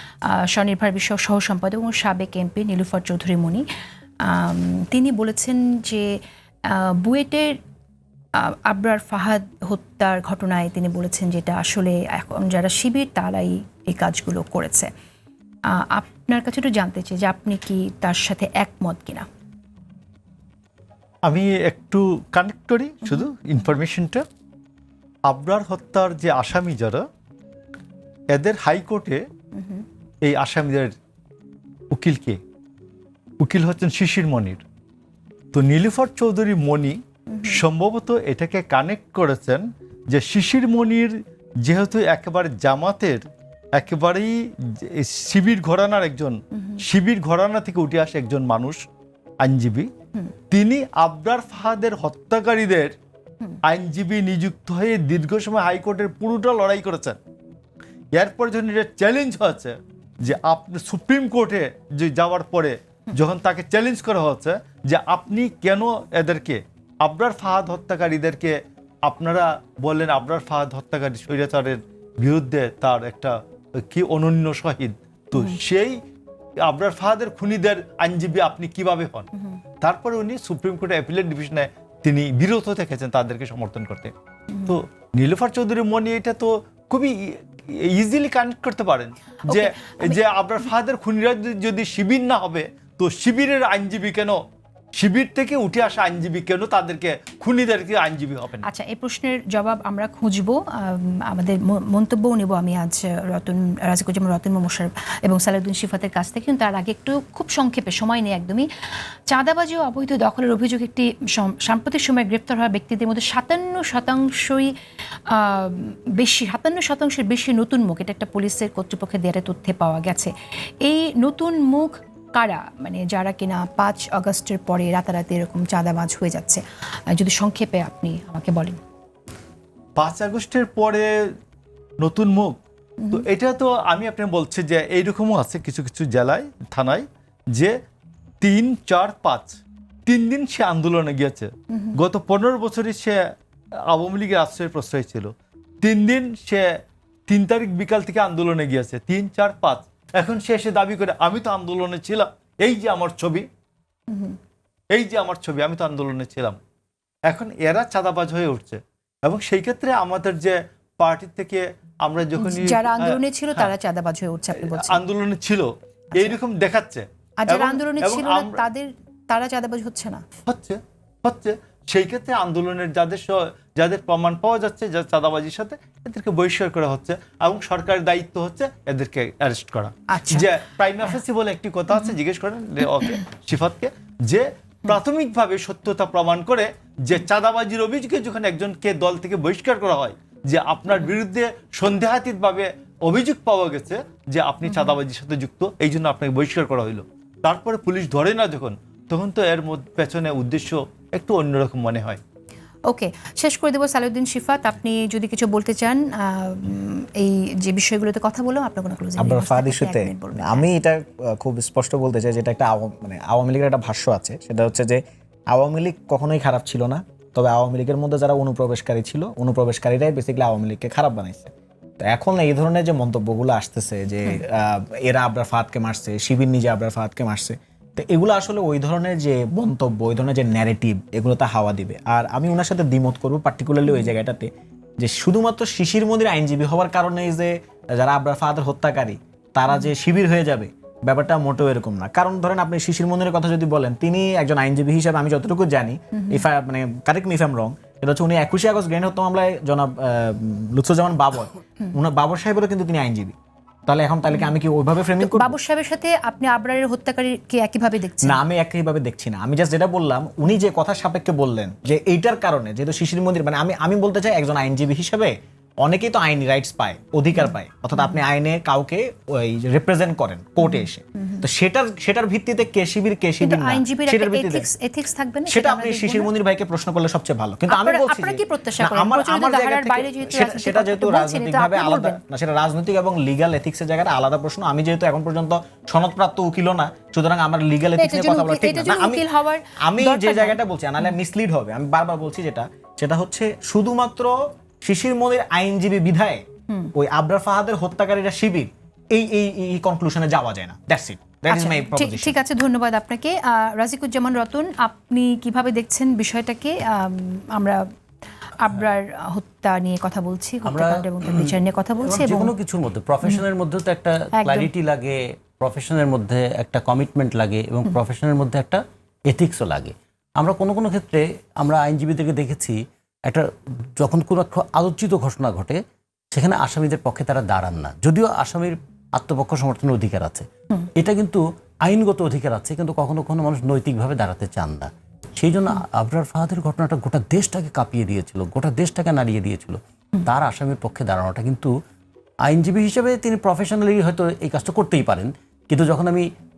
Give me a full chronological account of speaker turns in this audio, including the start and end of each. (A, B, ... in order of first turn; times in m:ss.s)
0:00.3-0:03.6 A
0:04.2-0:07.6 A
0:08.4-0:14.9 A
0:15.7-0:19.3 A
0:21.2-0:24.2 B
0:25.3-0:27.0 B
0:28.3-0:29.2 B
0:29.6-0:29.8 A
0:30.2-0:30.9 B
0:31.9-0:32.4 B
0:33.4-0:34.6 B
0:35.5-0:43.2 B
0:37.3-0:37.6 A
0:43.8-0:48.8 B
0:46.5-0:46.8 A
0:49.4-0:49.9 B
0:50.5-0:52.9 B
0:53.6-0:57.2 B
0:58.1-1:16.0 B
1:16.6-1:19.3 B
1:19.8-1:24.1 B
1:24.5-1:24.8 A
1:24.7-1:34.4 B
1:29.5-1:30.2 A
1:35.0-1:38.7 B
1:38.6-1:48.7 A
1:49.3-1:54.7 A
1:55.3-2:00.3 A
2:00.8-2:08.8 A
2:10.0-2:11.3 B
2:12.0-2:12.6 B
2:13.1-2:17.7 B
2:18.4-2:23.2 B
2:21.7-2:22.0 A
2:23.9-2:26.7 B
2:27.3-2:33.5 B
2:34.1-2:34.4 A
2:34.9-2:36.6 B
2:37.3-2:43.7 B
2:42.4-2:45.0 A
2:44.5-2:48.6 B
2:47.4-2:50.2 A
2:50.5-3:22.2 B
3:00.1-3:00.5 A
3:14.7-3:15.0 A
3:22.9-3:30.7 A
3:29.2-4:13.4 C
3:53.9-3:54.1 A
4:06.1-4:06.4 A
4:13.9-4:15.6 C
4:15.2-4:18.4 A
4:18.2-4:34.7 C
4:27.4-4:28.2 A
4:30.6-4:31.4 A
4:33.4-4:36.3 A
4:35.5-4:49.3 C
4:37.7-4:42.2 A
4:48.0-4:51.1 A
4:49.8-4:56.4 C
4:57.0-5:02.4 C
5:01.5-5:07.8 A
5:08.5-5:12.5 A
5:10.6-5:23.4 D
5:14.4-5:14.7 A
5:24.0-5:25.8 D
5:26.3-5:30.5 D
5:31.0-5:41.7 D
5:42.5-5:46.2 D